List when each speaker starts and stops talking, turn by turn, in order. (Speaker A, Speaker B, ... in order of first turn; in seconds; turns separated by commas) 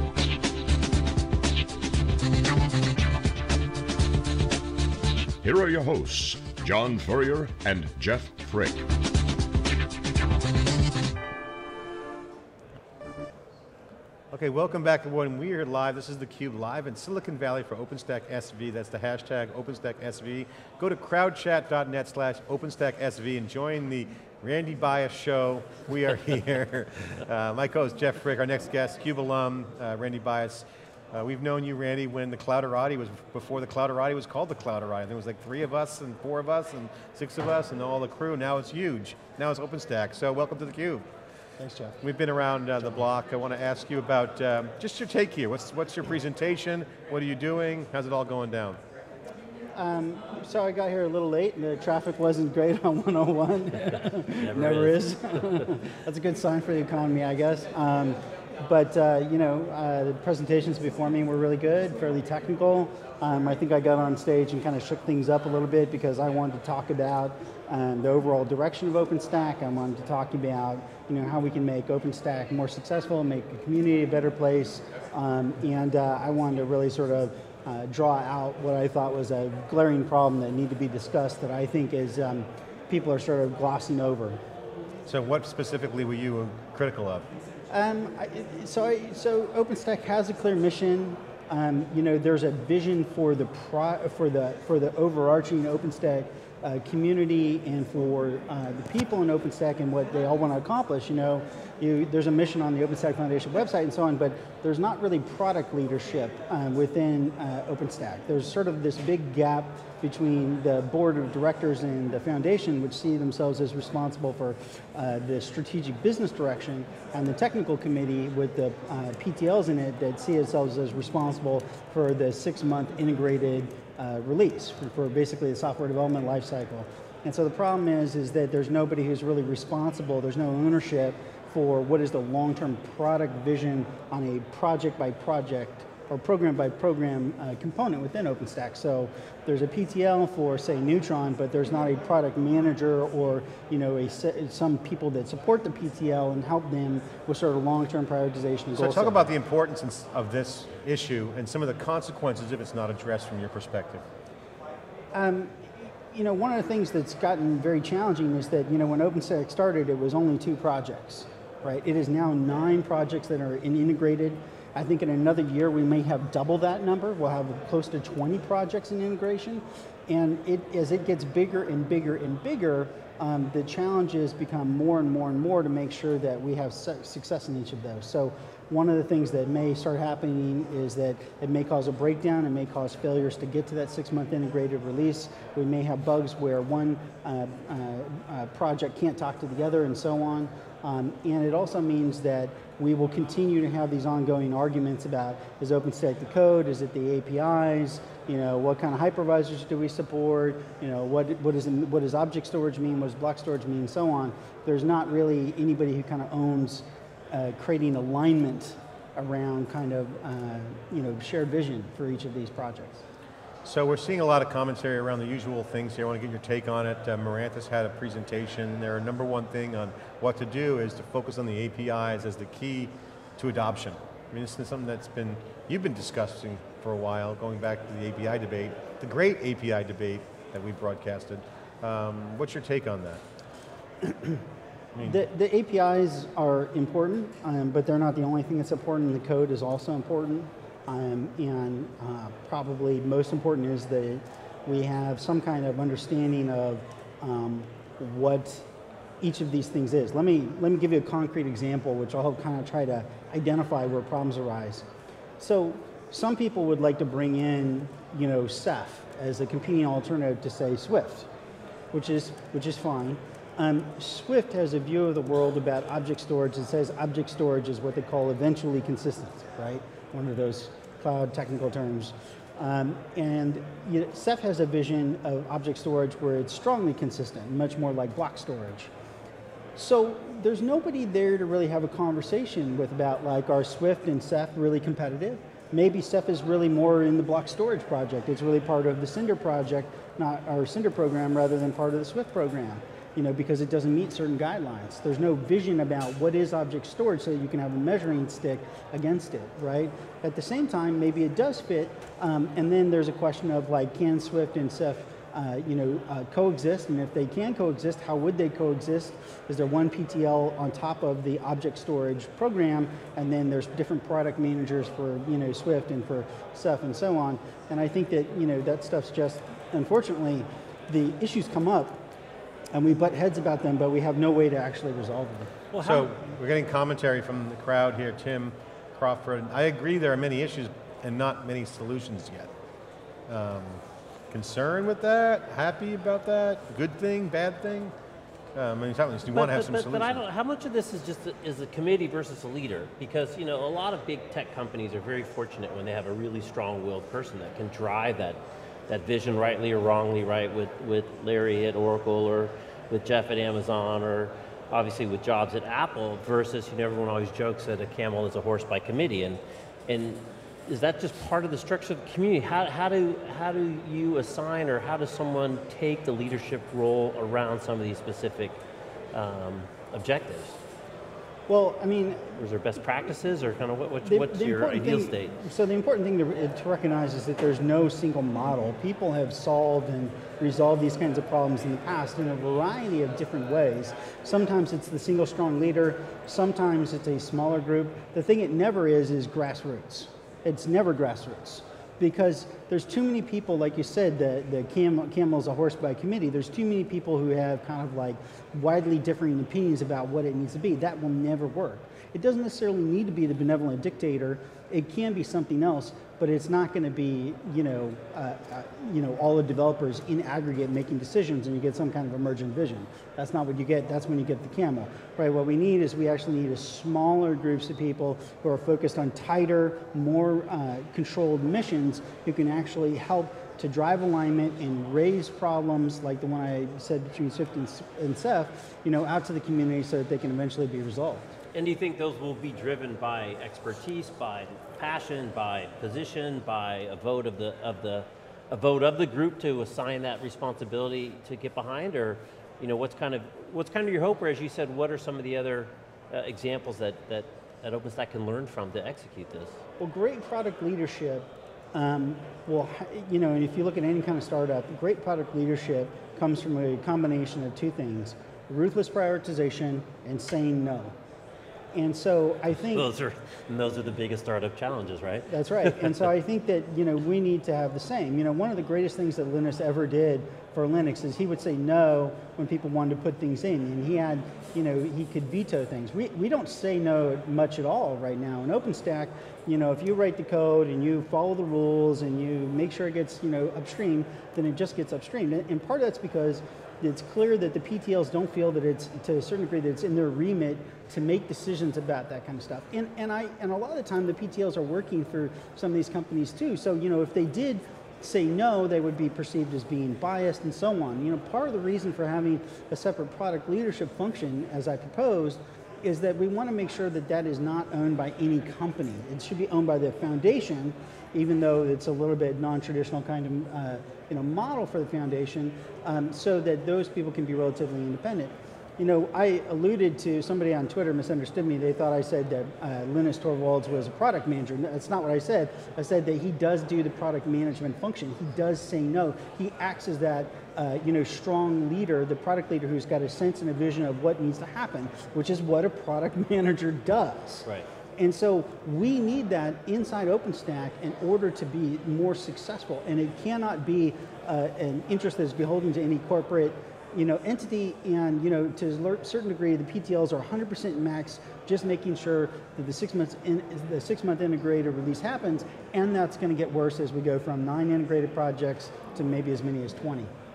Speaker A: 5.4-8.8, Speaker B: 14.3-41.0, Speaker C: 41.6-41.9, Speaker B: 42.0-48.8, Speaker C: 49.8-84.4, Speaker D: 54.4-55.6, Speaker B: 85.0-87.3, Speaker C: 87.7-149.3, Speaker B: 148.8-154.0, Speaker C: 155.1-155.5, Speaker C: 156.1-213.0, Speaker B: 213.6-233.2, Speaker C: 234.0-234.4, Speaker B: 234.9-235.2, Speaker C: 235.0-248.6, Speaker C: 249.2-254.8, Speaker C: 255.4-261.3, Speaker C: 261.9-278.9, Speaker C: 279.8-322.0, Speaker C: 322.7-325.5, Speaker D: 325.7-326.2, Speaker B: 325.8-332.5, Speaker B: 333.3-337.9, Speaker B: 338.5-340.2, Speaker D: 339.3-368.6, Speaker D: 369.1-370.6, Speaker C: 371.5-372.3, Speaker D: 372.3-375.4, Speaker C: 374.0-431.3, Speaker D: 431.5-449.6, Speaker C: 449.8-460.9, Speaker C: 461.7-462.8, Speaker D: 462.5-466.1, Speaker C: 465.3-537.4, Speaker C: 538.0-560.1